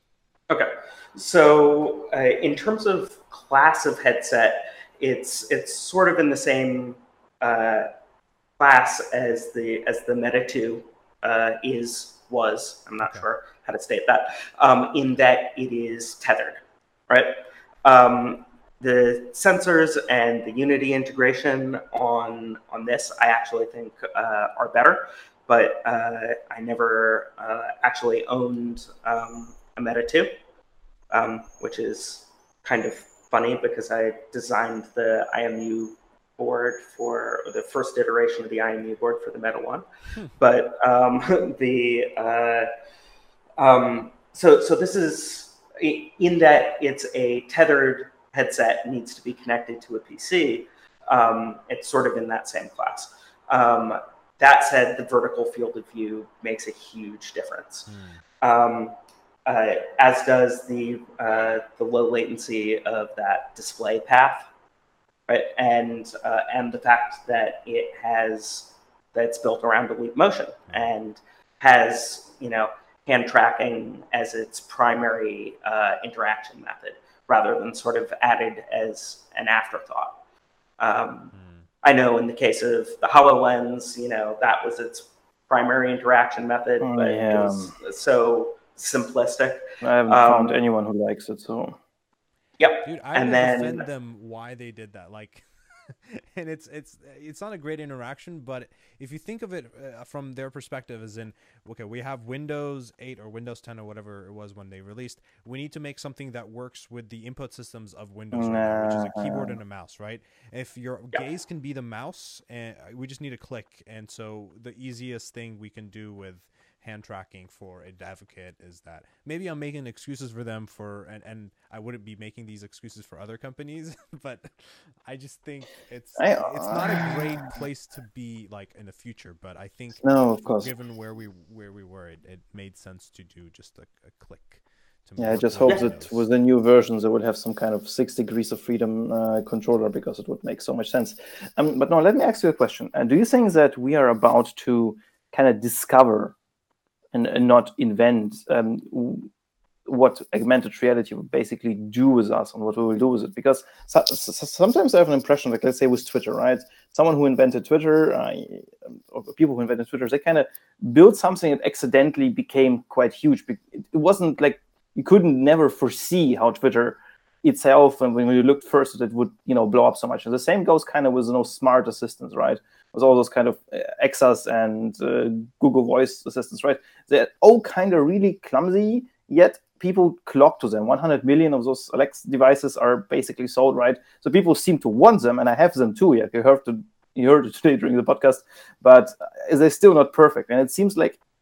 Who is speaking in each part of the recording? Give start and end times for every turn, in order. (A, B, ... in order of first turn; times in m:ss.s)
0:00.5-0:07.9 A
0:08.6-0:30.3 A
0:13.0-0:13.3 B
0:31.1-0:39.8 A
0:40.4-0:42.7 A
0:43.6-0:57.9 A
0:57.9-0:58.2 B
0:58.4-0:58.9 A
0:59.5-1:04.5 A
1:05.3-1:20.2 A
1:20.8-1:30.6 A
1:21.3-1:21.7 B
1:26.8-1:27.7 C
1:29.8-1:31.8 C
1:32.6-1:33.9 A
1:32.8-2:16.2 B
1:48.3-1:49.6 C
2:06.2-2:07.6 C
2:10.0-2:10.7 C
2:15.2-2:26.4 C
2:27.1-2:29.3 C
2:29.9-3:11.2 C